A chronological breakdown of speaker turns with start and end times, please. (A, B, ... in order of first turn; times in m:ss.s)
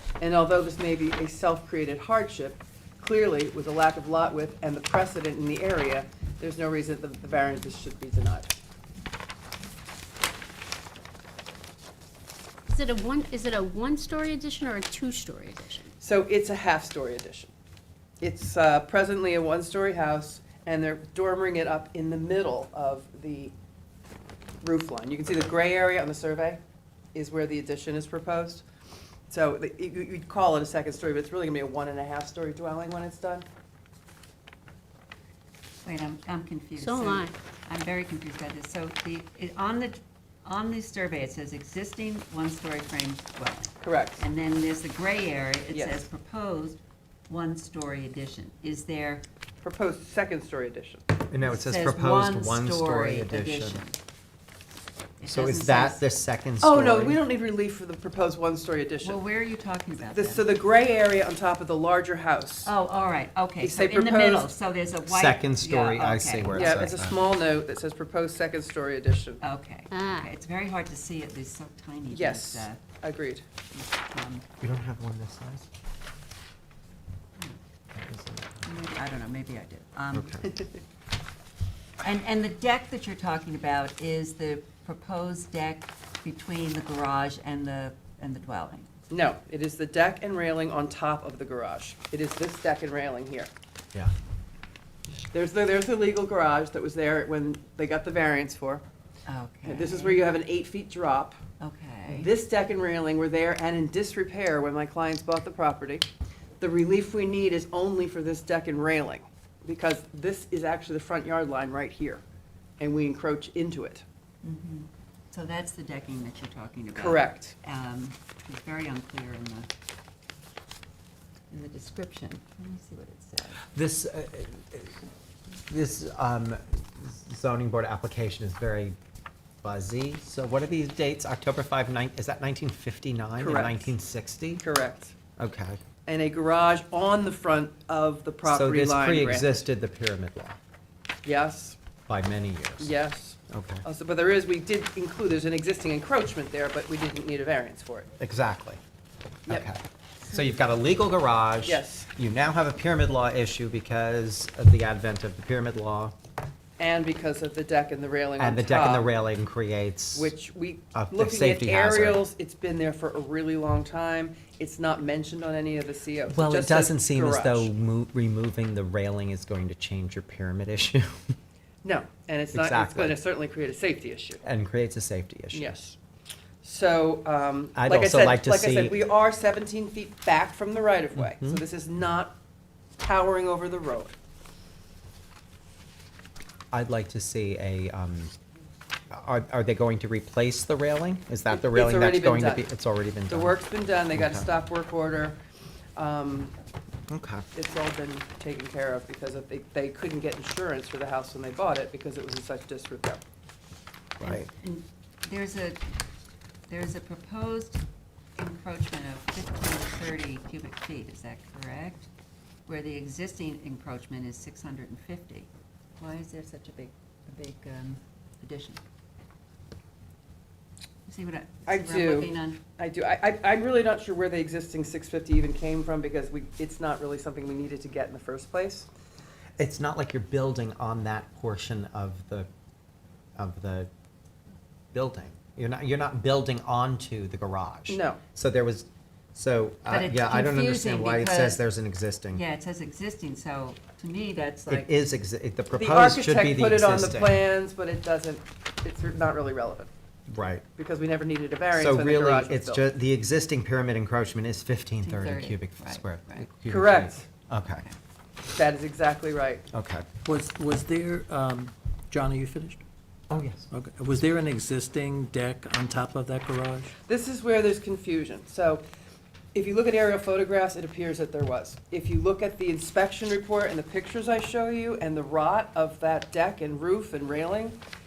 0:00.2-0:08.6 A
0:12.7-0:15.9 B
0:16.0-0:17.5 A
0:18.2-0:23.5 A
0:24.6-0:26.6 A
0:27.1-0:28.7 A
0:29.3-0:33.5 A
0:35.8-0:49.2 C
0:36.8-0:37.3 B
0:43.8-0:44.2 A
0:45.7-0:46.0 A
0:49.6-0:51.0 A
0:51.3-0:53.8 D
0:51.4-0:54.0 C
0:55.2-0:56.0 C
0:55.3-0:57.2 D
0:56.6-0:59.2 A
0:59.0-1:00.5 C
1:00.1-1:02.7 A
1:02.6-1:07.0 C
1:03.6-1:04.5 A
1:05.1-1:07.2 D
1:06.5-1:09.4 A
1:09.4-1:12.8 C
1:09.9-1:10.3 B
1:12.1-1:13.4 A
1:13.7-1:14.5 C
1:14.6-1:15.7 D
1:17.9-1:18.6 D
1:18.6-1:20.5 C
1:20.1-1:20.6 D
1:22.0-1:28.9 C
1:29.1-1:33.5 A
1:35.3-1:38.8 A
1:39.3-1:40.2 C
1:39.6-1:41.4 A
1:41.6-1:42.3 C
1:42.1-1:46.1 A
1:46.6-1:52.2 A
1:52.8-1:54.0 A
1:54.4-1:59.7 C
1:57.0-1:57.6 A
2:01.5-2:03.7 C
2:03.7-2:05.0 D
2:05.7-2:09.0 D
2:09.6-2:14.6 D
2:13.4-2:13.9 A
2:14.6-2:15.1 A
2:15.4-2:15.8 D
2:16.1-2:19.6 A
2:18.5-2:20.6 D
2:21.2-2:21.8 A
2:22.1-2:22.9 D
2:22.8-2:28.1 A
2:23.5-2:23.8 D
2:28.2-2:28.8 D
2:29.5-2:36.2 D
2:31.6-2:32.1 A
2:36.8-2:39.1 A
2:38.4-2:40.3 D
2:40.2-2:47.7 A
2:40.9-2:42.2 D
2:46.3-2:51.2 D
2:51.8-2:54.4 A
2:52.5-2:53.2 D
2:54.4-2:55.8 D
2:55.5-2:56.0 A
2:56.6-3:02.4 A
2:57.8-2:59.0 D
3:01.2-3:01.6 D
3:03.0-3:04.2 A
3:06.7-3:08.3 D
3:09.1-3:13.6 D
3:11.5-3:12.7 A
3:13.3-3:15.4 A
3:14.2-3:14.5 D
3:16.0-3:16.5 A
3:17.1-3:17.4 D
3:17.5-3:23.2 A
3:24.2-3:24.5 D
3:24.2-3:25.8 C
3:26.7-3:27.8 C
3:28.4-3:32.1 C
3:32.7-3:35.5 C
3:36.0-3:38.8 C
3:41.1-3:42.6 C
3:41.7-3:48.9 A
3:49.6-3:52.5 D
3:53.4-3:53.9 D
3:54.9-4:02.4 D
3:57.9-3:58.2 A
3:59.9-4:01.6 C
4:02.3-4:04.9 C
4:04.7-4:07.4 D
4:05.7-4:09.9 A
4:10.3-4:10.6 D
4:10.8-4:12.9 A
4:11.7-4:17.9 D
4:15.0-4:16.5 C
4:16.7-4:17.3 A
4:18.5-4:19.7 A
4:19.7-4:20.1 D
4:20.2-4:22.8 E
4:23.3-4:23.7 D
4:23.7-4:26.9 E
4:27.1-4:28.8 A
4:29.5-4:37.8 A